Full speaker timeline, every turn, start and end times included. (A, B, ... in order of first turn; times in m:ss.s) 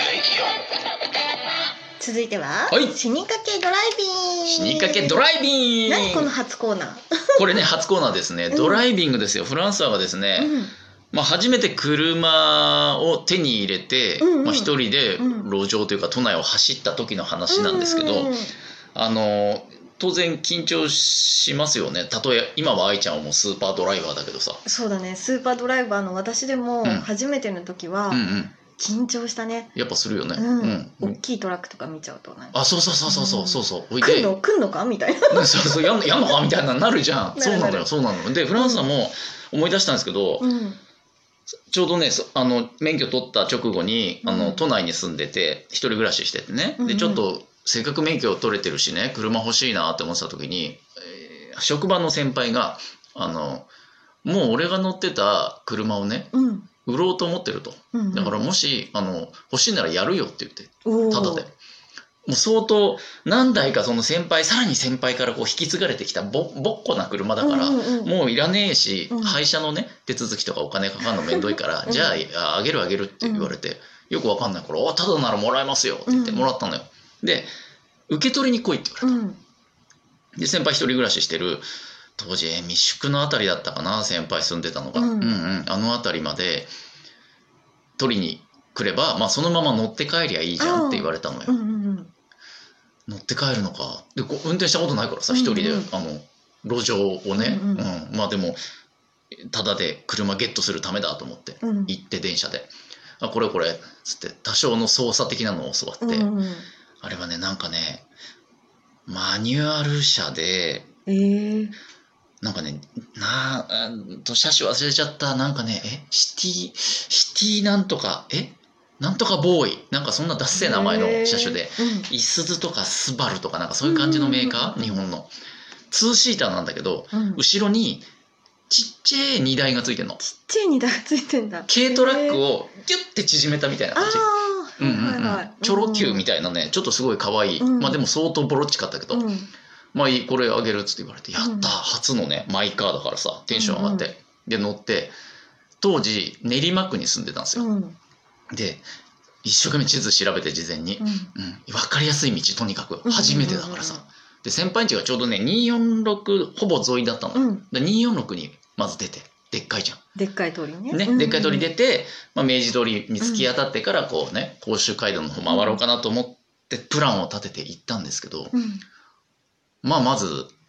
0:02.0-0:05.2 A
0:02.7-0:03.0 B
0:04.5-0:06.3 B
0:05.9-0:07.5 A
0:07.4-0:10.5 B
0:08.5-0:08.8 A
0:10.4-0:10.7 A
0:11.1-0:18.4 B
0:14.2-0:15.5 A
0:17.5-0:18.5 A
0:19.0-0:24.6 B
0:24.6-0:28.2 A
0:28.1-0:28.5 B
0:28.8-0:29.7 A
0:29.8-0:31.2 B
0:30.4-0:35.7 A
0:32.5-0:34.3 B
0:35.3-0:40.5 B
0:37.4-0:37.9 A
0:38.6-0:38.8 A
0:40.4-0:40.8 A
0:41.7-0:53.7 B
0:44.2-0:44.6 A
0:46.8-0:47.2 A
0:54.2-0:56.3 B
0:56.3-0:56.7 A
0:56.8-1:01.5 B
0:57.9-0:58.4 A
1:00.8-1:01.5 A
1:02.3-1:17.5 B
1:07.4-1:08.1 A
1:09.1-1:09.4 A
1:11.1-1:12.2 A
1:13.2-1:13.5 A
1:16.1-1:16.5 A
1:18.1-1:19.1 B
1:19.0-1:19.4 A
1:20.4-1:21.7 B
1:22.2-1:26.7 B
1:25.0-1:25.4 A
1:28.0-1:31.6 B
1:30.6-1:32.1 A
1:33.1-1:38.6 B
1:35.3-1:35.9 A
1:37.4-1:37.9 A
1:39.4-1:46.3 B
1:41.6-1:41.9 A
1:46.0-1:46.7 A
1:47.0-1:48.0 B
1:49.1-1:50.9 B
1:51.1-1:51.8 A
1:52.4-2:05.3 B
2:00.6-2:02.1 A
2:03.8-2:05.0 A
2:05.9-2:08.1 B
2:07.1-2:07.4 A
2:08.7-2:10.2 B
2:10.2-2:12.4 A
2:11.7-2:14.3 B
2:14.0-2:16.3 A
2:14.8-2:19.3 B
2:17.6-2:18.0 A
2:19.1-2:19.5 A
2:19.9-2:25.1 B
2:21.4-2:21.7 A
2:23.5-2:24.1 A
2:25.8-2:27.7 B
2:27.6-2:28.0 A
2:28.5-2:28.8 B
2:29.4-2:40.0 B
2:31.0-2:31.3 A
2:33.0-2:34.0 A
2:37.4-2:37.6 A
2:40.2-2:41.7 A
2:40.9-2:48.5 B
2:43.2-2:43.5 A
2:45.5-2:45.8 A
2:48.5-2:48.8 A
2:49.8-2:50.5 B